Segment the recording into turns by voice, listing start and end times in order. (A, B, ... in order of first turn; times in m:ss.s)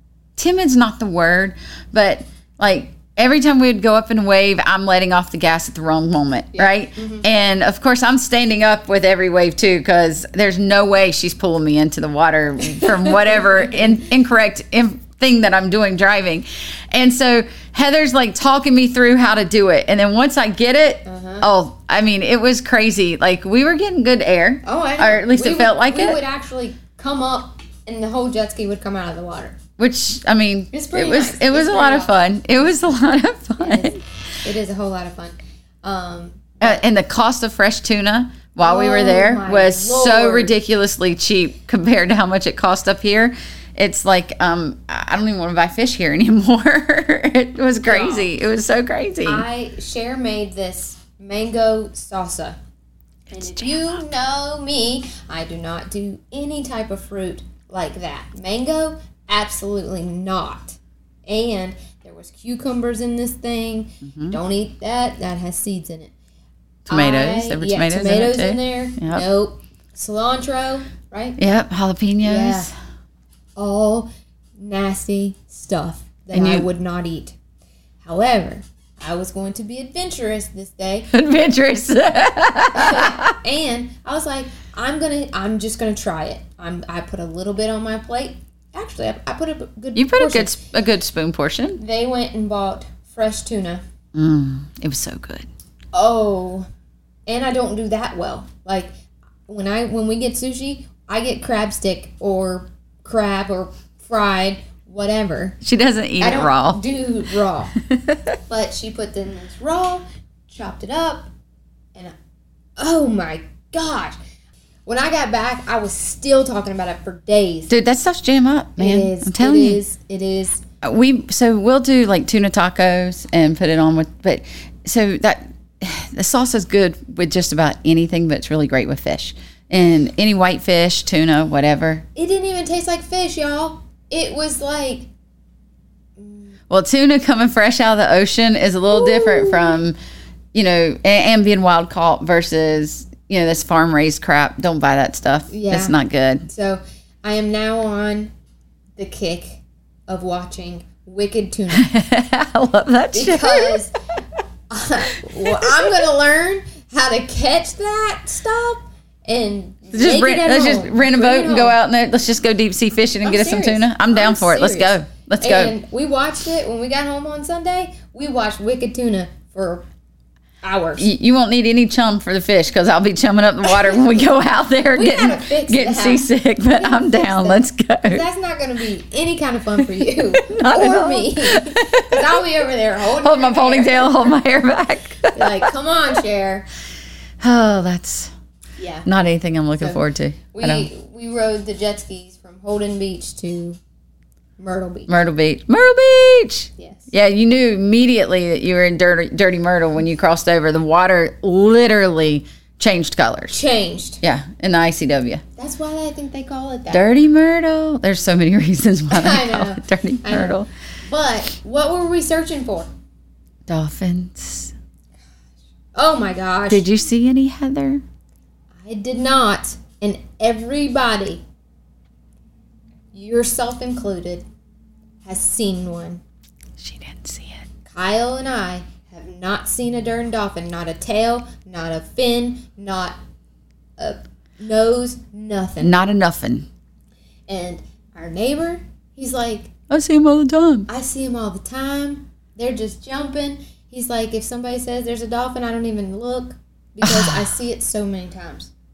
0:00.4-0:26.2 A
0:06.5-0:07.2 B
0:12.8-0:14.0 B
0:21.0-0:21.5 B
0:24.6-0:29.6 B
0:29.8-0:34.0 A
0:30.7-0:32.8 B
0:33.6-0:36.8 B
0:36.6-0:49.4 A
0:38.6-0:40.5 B
0:47.8-0:48.3 B
0:49.2-0:52.6 B
0:53.3-0:54.0 A
0:53.3-1:06.1 B
1:04.0-1:04.4 A
1:06.9-1:09.2 A
1:06.9-1:11.4 B
1:11.4-1:12.7 A
1:12.2-1:12.7 B
1:13.6-1:17.4 B
1:16.3-1:16.7 A
1:18.0-1:21.1 B
1:21.1-1:23.4 A
1:22.7-1:30.6 B
1:30.0-1:31.8 A
1:31.8-1:33.8 B
1:34.1-1:35.5 A
1:35.9-1:36.7 B
1:37.3-1:38.9 B
1:39.5-1:45.6 B
1:45.6-1:46.8 A
1:46.2-1:47.8 B
1:47.8-1:48.4 A
1:48.5-1:51.3 B
1:52.8-1:54.2 B
1:54.9-1:57.7 B
1:57.7-1:59.8 A
1:58.8-2:00.6 B
2:00.8-2:12.0 A
2:12.2-2:15.1 B
2:16.2-2:16.6 B
2:16.7-2:20.0 A
2:18.9-2:19.8 B
2:20.5-2:26.5 A
2:25.5-2:26.0 B
2:26.5-2:28.3 B
2:29.0-2:31.9 B
2:31.7-2:33.8 A
2:33.1-2:33.9 B
2:34.7-2:41.8 B
2:35.2-2:35.8 A
2:39.9-2:45.8 A
2:43.2-2:49.9 B
2:50.6-2:51.1 B
2:51.0-2:58.2 A
2:53.6-2:54.0 B
2:54.9-3:04.4 B
3:00.4-3:02.4 A
3:03.2-3:05.7 A
3:05.3-3:06.7 B
3:07.4-3:08.3 A
3:08.8-3:09.1 B
3:09.0-3:10.9 A
3:09.8-3:13.8 B
3:14.6-3:15.1 B
3:15.1-3:23.6 A
3:16.8-3:17.1 B
3:23.5-3:24.2 B
3:24.2-3:25.4 A
3:25.6-3:27.1 B
3:26.9-3:30.7 A
3:29.1-3:32.9 B
3:33.7-3:34.7 A
3:36.0-3:36.8 B
3:36.7-3:38.0 A
3:38.8-3:41.4 B
3:43.1-3:44.5 B
3:45.2-3:46.2 B
3:46.8-3:47.7 A
3:47.8-3:53.2 B
3:54.0-3:56.0 B
3:55.8-3:56.7 A
3:57.5-3:59.7 B
3:59.9-4:00.9 A
4:00.9-4:08.7 B
4:07.0-4:07.5 A